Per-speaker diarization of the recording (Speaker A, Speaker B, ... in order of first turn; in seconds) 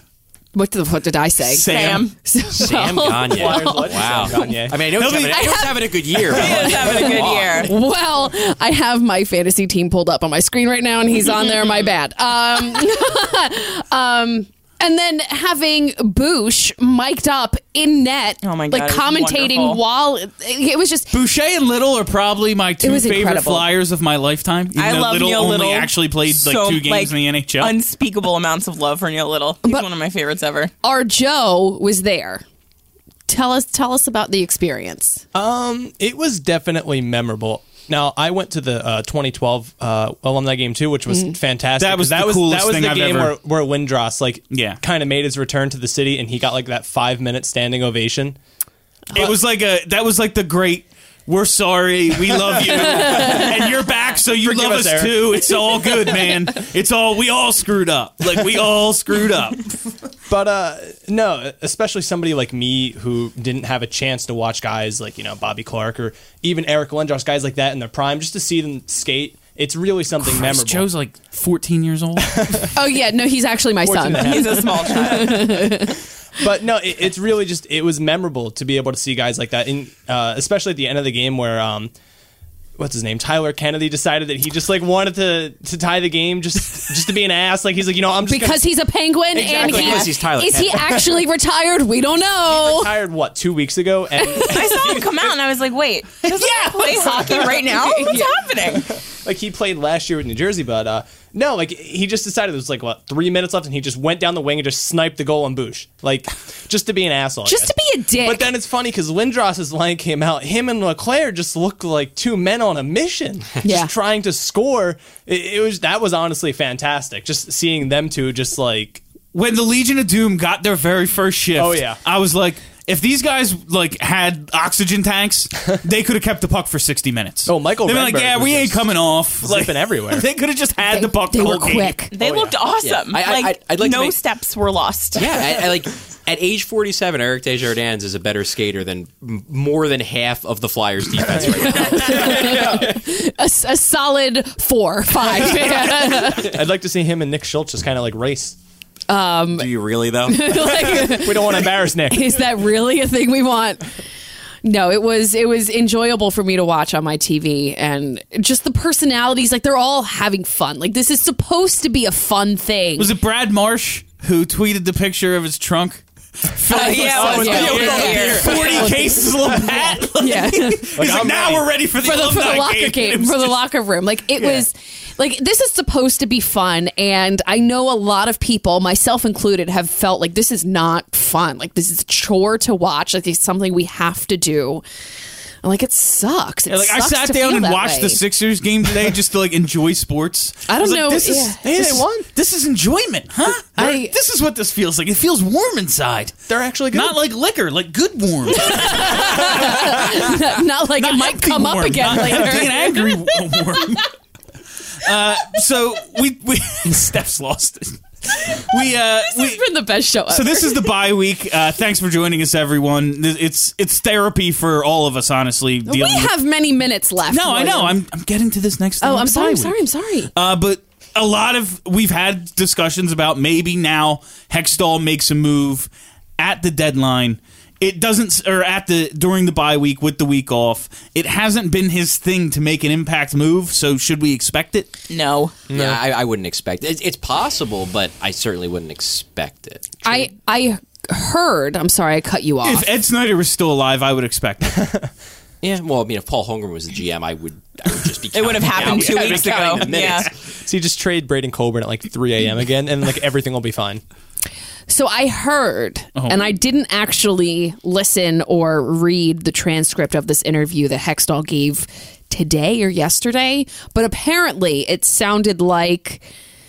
Speaker A: 0.5-4.5, 5.2-21.1, 22.8-23.7, 30.8-32.4, 33.3-35.2, 41.1-41.3, 52.9-53.4, 72.7-76.0, 88.2-92.9, 94.2-94.9, 96.3-98.4, 107.5-108.5, 113.6-113.9, 130.9-132.1, 141.7-146.6, 149.1-149.7, 150.3-153.8, 154.6-163.1, 166.8-171.2, 171.9-184.8, 185.6-188.2, 190.7-191.6, 193.8-194.1, 198.5-203.8, 209.2-210.9, 215.8-217.9, 219.0-220.3, 240.0-242.9, 254.9-266.2
Speaker B: 1.4-2.1, 4.9-5.7, 21.1-27.7, 41.8-43.4, 44.5-44.8, 49.1-59.6, 70.2-72.7, 96.3-96.8, 119.3-132.1, 163.0-173.6, 186.7-204.1, 205.0-209.6, 210.2-216.3, 217.3-219.8, 220.3-234.9, 242.6-244.9, 256.1-256.5
Speaker C: 1.6-2.1, 6.3-7.7, 18.4-19.8, 24.7-30.7, 74.2-75.5, 94.5-98.9, 132.1-135.3, 166.7-168.7, 235.1-235.5, 248.3-250.3
Speaker D: 2.5-7.7, 89.4-91.1, 132.8-134.2, 135.1-142.8, 149.5-151.1, 235.7-240.2, 245.6-250.3
Speaker E: 3.3-4.9, 35.3-48.4, 52.3-53.7, 54.3-56.3, 60.3-70.9, 72.2-72.7, 73.8-75.6, 76.4-81.9, 82.8-88.7, 89.3-90.1, 92.5-95.1, 99.1-119.0, 121.5-122.0, 127.5-130.3, 132.2-132.6, 141.4-141.7, 142.2-142.9, 145.4-148.6, 151.0-152.4, 166.7-170.0, 170.9-171.8, 191.3-192.3, 196.5-197.2, 235.7-236.0, 244.6-245.1, 248.6-254.0